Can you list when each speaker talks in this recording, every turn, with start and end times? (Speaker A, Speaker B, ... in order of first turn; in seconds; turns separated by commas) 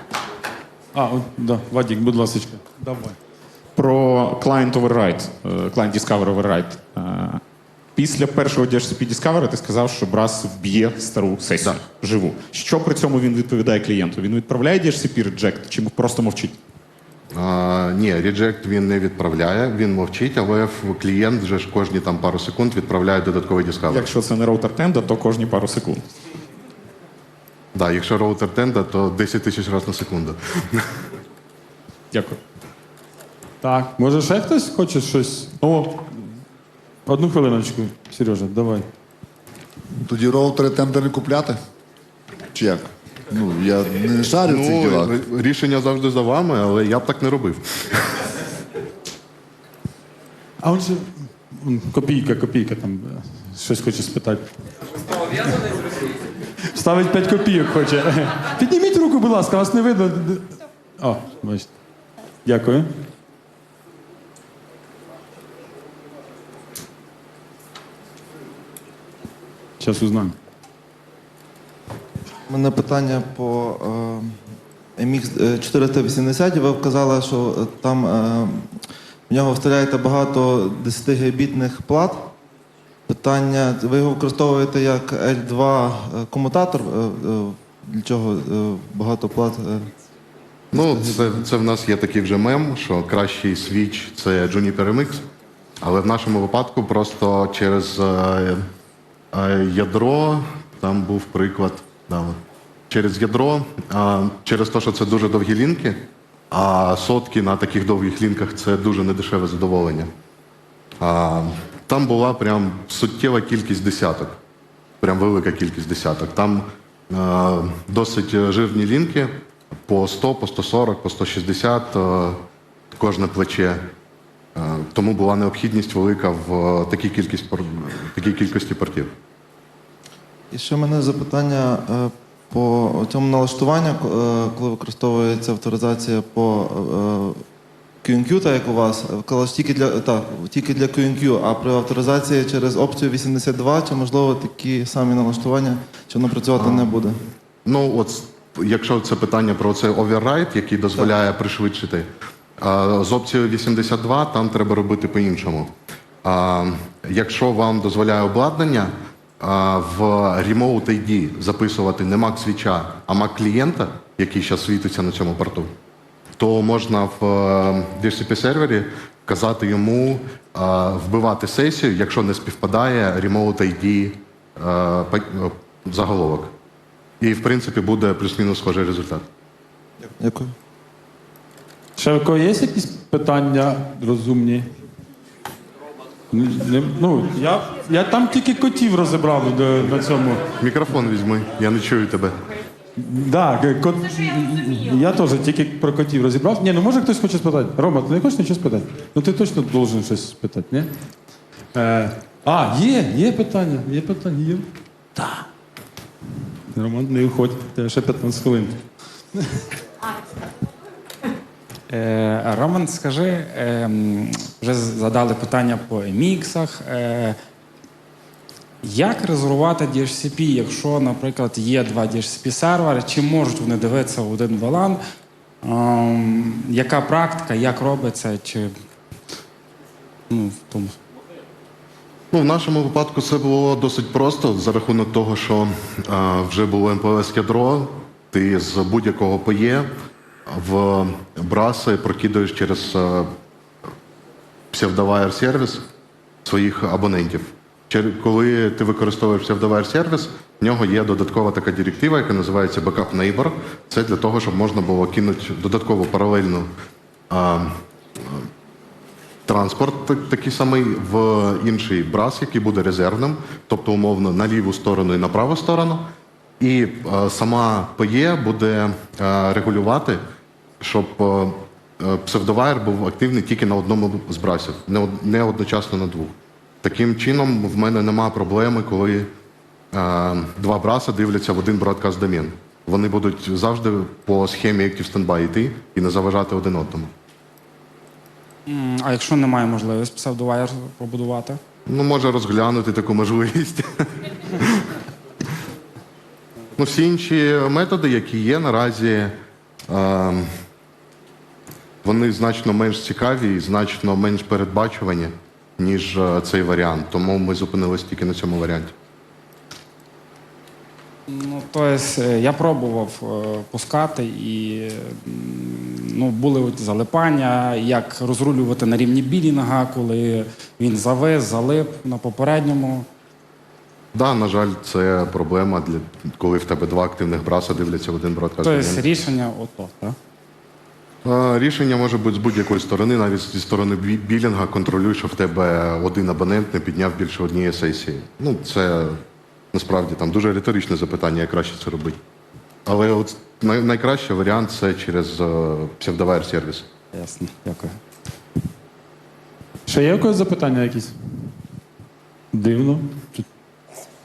Speaker A: 0.9-3.2, Speaker B: 3.8-7.4, Speaker B: 8.0-16.6, Speaker C: 17.3-24.1, Speaker B: 23.9-26.1, Speaker C: 27.7-30.9, Speaker B: 32.1-32.4, Speaker A: 33.6-36.3, Speaker A: 37.1-38.9, Speaker D: 40.0-41.6, Speaker D: 42.5-45.1, Speaker C: 44.4-48.2, Speaker A: 50.6-54.5, Speaker A: 55.4-55.7, Speaker A: 56.6-61.7, Speaker A: 62.4-62.9, Speaker A: 69.8-70.4, Speaker E: 72.5-74.4, Speaker E: 75.0-78.7, Speaker E: 79.3-82.3, Speaker E: 83.1-89.9, Speaker C: 90.7-95.3, Speaker E: 90.7-91.4, Speaker C: 95.8-98.6, Speaker C: 99.3-102.4, Speaker C: 102.9-110.1, Speaker C: 111.0-114.4, Speaker C: 115.0-119.3, Speaker C: 119.9-122.4, Speaker C: 122.9-123.9, Speaker C: 124.5-129.2, Speaker E: 130.5-137.4, Speaker E: 138.0-147.1, Speaker C: 146.6-147.0, Speaker C: 147.6-165.7, Speaker C: 166.4-176.5, Speaker C: 177.2-179.3, Speaker E: 180.2-180.5, Speaker A: 182.0-184.7, Speaker A: 186.3-190.4, Speaker C: 190.6-192.4, Speaker A: 192.9-200.9, Speaker A: 201.7-204.7, Speaker A: 206.7-208.8, Speaker A: 209.3-209.6, Speaker F: 211.9-217.4, Speaker F: 218.8-225.0, Speaker F: 225.6-228.7, Speaker F: 230.3-230.9, Speaker C: 232.3-239.9, Speaker C: 240.4-243.3, Speaker C: 244.7-245.8, Speaker C: 246.4-256.7, Speaker C: 257.3-258.5, Speaker C: 259.4-270.2, Speaker C: 270.8-279.3, Speaker C: 279.9-287.1, Speaker F: 288.7-291.6, Speaker C: 291.9-294.9, Speaker C: 296.8-299.4, Speaker C: 299.9-300.5, Speaker C: 302.0-308.9, Speaker F: 311.3-323.1, Speaker C: 324.1-329.1, Speaker F: 328.6-330.1, Speaker C: 331.2-342.2, Speaker C: 342.9-346.9, Speaker F: 347.1-347.9, Speaker A: 349.9-351.2, Speaker A: 352.5-353.4